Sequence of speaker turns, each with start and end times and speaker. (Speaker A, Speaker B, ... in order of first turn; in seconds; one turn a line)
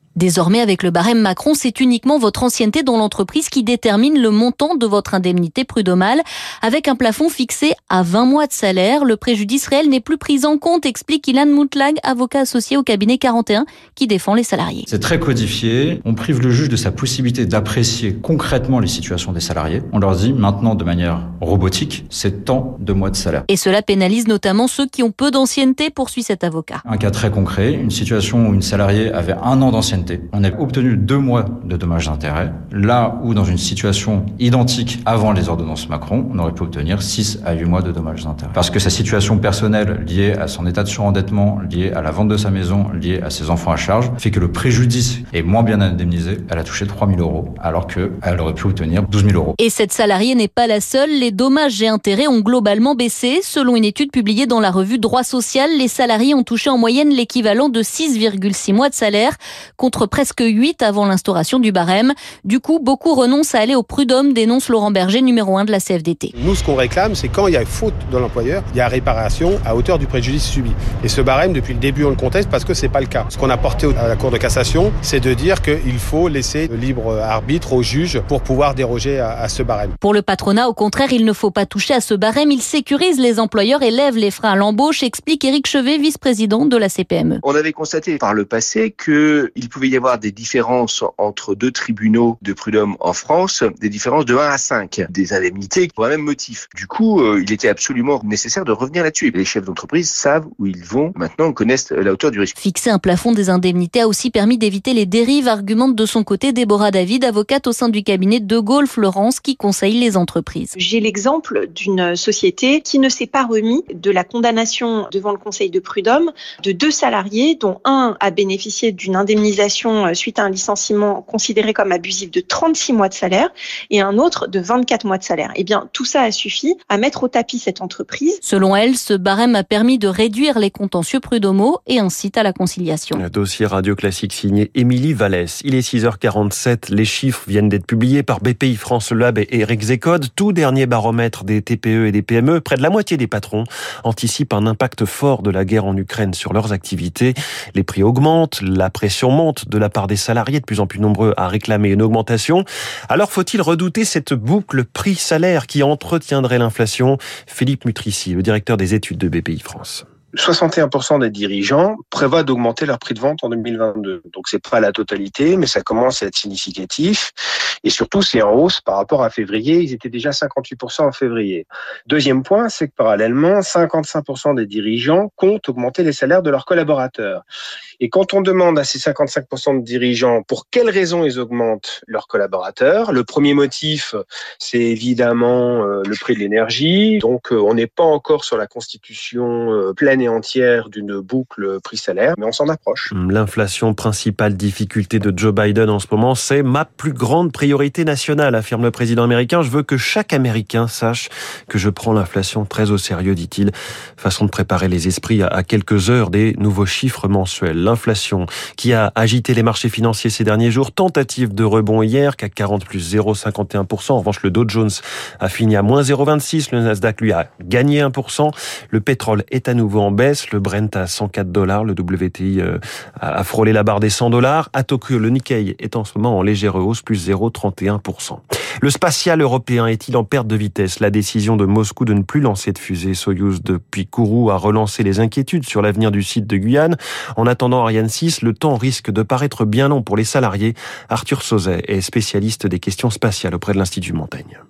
Speaker A: 0.1-14.9
Speaker B: 14.9-23.4
Speaker A: 23.5-26.8
Speaker B: 26.9-49.5
Speaker A: 49.6-66.3
Speaker C: 66.3-79.9
Speaker A: 80.0-87.4
Speaker D: 87.5-102.5
Speaker A: 102.6-110.7
Speaker E: 110.8-128.4
Speaker A: 128.4-133.2
Speaker F: 133.1-160.0
Speaker G: 160.3-167.3
Speaker G: 167.8-177.4
Speaker G: 178.0-193.1
Speaker F: 193.1-244.6